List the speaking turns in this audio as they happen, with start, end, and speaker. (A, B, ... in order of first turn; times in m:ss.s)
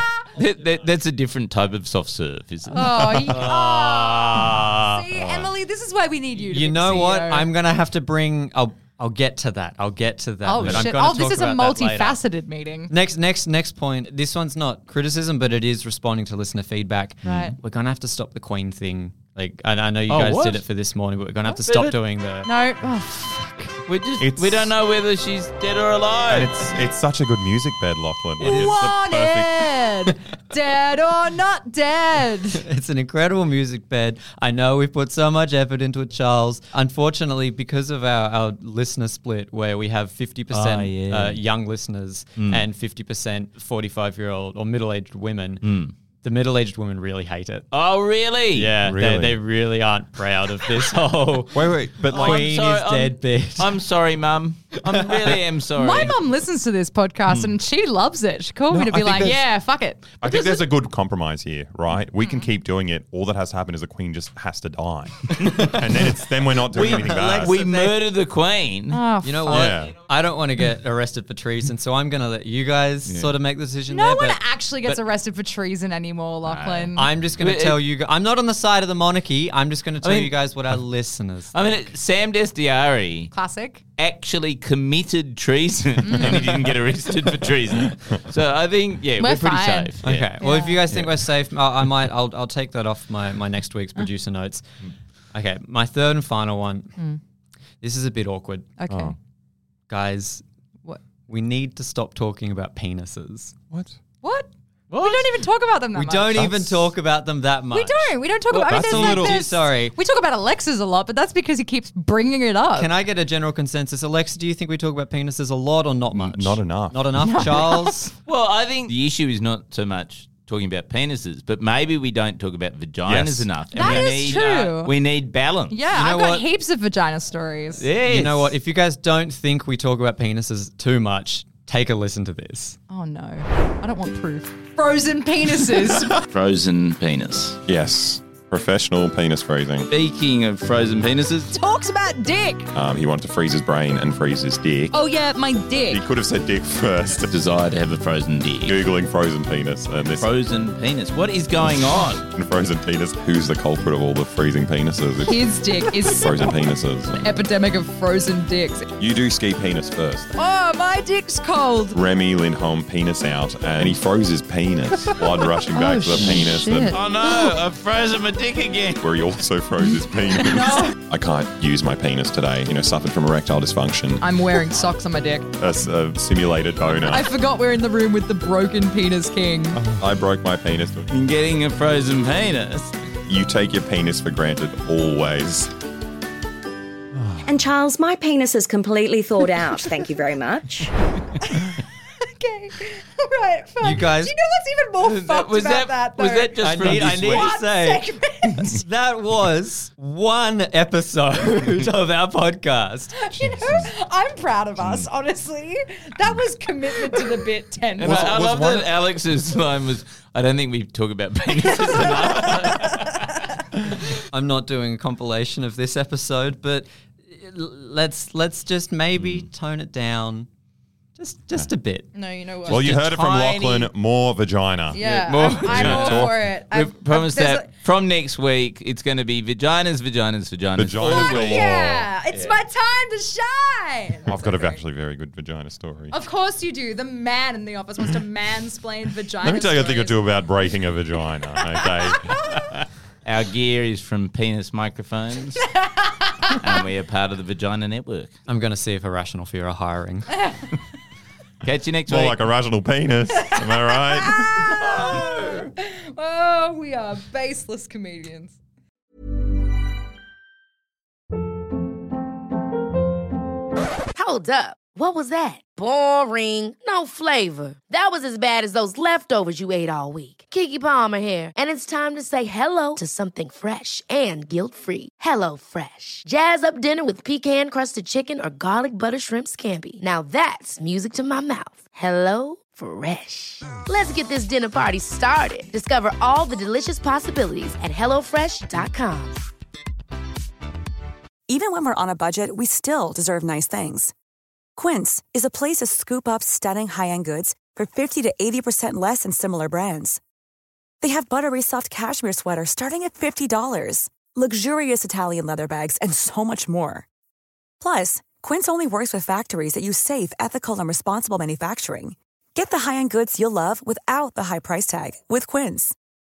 0:00.4-0:03.0 A
0:02.7-0:07.5 B
0:03.0-0:03.4 C
0:03.2-0:05.0 D
0:06.5-0:12.2 D
0:10.4-0:12.9 B
0:12.9-0:22.5 D
0:17.2-0:17.6 B
0:21.4-0:21.8 B
0:22.4-0:23.8 B
0:23.9-0:26.6 A
0:24.2-0:24.7 C
0:26.3-0:29.6 C
0:28.4-0:32.7 B
0:32.6-0:47.7 D
0:40.5-0:41.4 A
0:42.4-0:42.7 A
0:45.6-0:45.9 A
0:47.7-0:48.8 A
0:48.5-0:53.8 D
0:48.8-0:49.4 C
0:51.5-0:52.6 C
0:52.1-0:56.1 A
0:54.9-0:55.3 D
0:55.8-1:00.7 B
0:58.7-0:59.6 C
1:00.2-1:07.6 C
1:02.2-1:02.5 B
1:05.4-1:05.9 A
1:06.7-1:09.0 A
1:06.7-1:08.0 D
1:08.9-1:09.8 B
1:09.2-1:15.0 D
1:09.5-1:10.0 C
1:13.1-1:13.4 A
1:13.9-1:17.1 B
1:16.4-1:17.8 A
1:17.0-1:21.5 D
1:20.0-1:20.4 A
1:21.5-1:23.3 A
1:23.3-1:23.8 B
1:24.0-1:30.3 A
1:26.0-1:26.4 B
1:29.2-1:30.9 B
1:30.0-1:34.7 D
1:35.3-1:37.0 D
1:37.8-1:38.7 D
1:38.8-1:39.2 B
1:38.9-1:39.2 C
1:39.9-1:40.4 D
1:41.3-1:43.6 D
1:43.7-1:44.0 C
1:44.2-1:46.5 B
1:44.9-1:45.3 D
1:45.9-1:49.9 D
1:46.3-1:46.9 C
1:47.7-1:52.9 B
1:48.6-1:49.4 C
1:52.7-1:58.1 D
1:56.1-1:57.7 C
1:57.2-1:58.1 B
1:58.3-2:05.8 A
2:03.1-2:03.5 C
2:03.7-2:05.0 B
2:03.8-2:04.1 D
2:05.7-2:07.9 B
2:05.9-2:06.5 D
2:07.8-2:08.6 A
2:08.0-2:12.8 D
2:12.9-2:16.2 B
2:16.3-2:17.6 A
2:17.7-2:19.9 C
2:19.9-2:21.5 A
2:21.5-2:22.7 B
2:22.7-2:25.0 C
2:24.9-2:26.0 B
2:25.9-2:27.3 C
2:27.3-2:28.8 A
2:28.6-2:30.3 C
2:30.1-2:32.2 A
2:32.3-2:35.4 C
2:35.2-2:36.6 B
2:36.0-2:37.2 C
2:37.2-2:38.9 B
2:39.0-2:40.3 C
2:40.4-2:42.0 B
2:41.9-2:47.0 C
2:45.1-2:47.6 B
2:46.2-2:49.0 A
2:49.0-2:54.2 C
2:49.8-2:50.9 B
2:54.2-2:55.5 B
2:55.6-2:57.3 C
2:56.9-2:59.8 B
2:59.8-3:01.1 C
3:01.1-3:03.0 A
3:03.3-3:05.7 C
3:07.2-3:07.4 C
3:07.4-3:10.9 E
3:11.4-3:11.7 B
3:12.4-3:18.7 B
3:13.8-3:14.3 D
3:15.0-3:17.6 A
3:16.6-3:18.1 D
3:18.7-3:23.1 D
3:23.1-3:28.2 B
3:23.4-3:23.9 C
3:24.8-3:25.1 A
3:28.0-3:33.1 A
3:28.0-3:28.9 C
3:32.1-3:32.7 B
3:34.3-3:40.5 D
3:39.2-3:39.5 A
3:41.2-3:42.1 D
3:42.1-3:42.9 B
3:42.6-3:46.4 C
3:42.7-3:43.9 A
3:44.9-3:47.7 B
3:45.0-3:52.6 A
3:50.8-3:52.1 C
3:51.4-3:54.8 B
3:54.3-3:56.1 C
3:56.1-4:00.2 B
3:59.4-4:02.4 C
4:01.9-4:02.4 B
4:03.2-4:05.6 A
4:05.8-4:06.5 B
4:06.6-4:08.3 A
4:08.5-4:10.3 D
4:11.6-4:12.4 A
4:12.1-4:14.5 C
4:13.4-4:18.6 B
4:24.1-4:49.4 F
4:51.5-4:54.1 G
4:54.8-5:00.2 G
5:01.0-5:07.1 G
5:07.8-5:16.0 G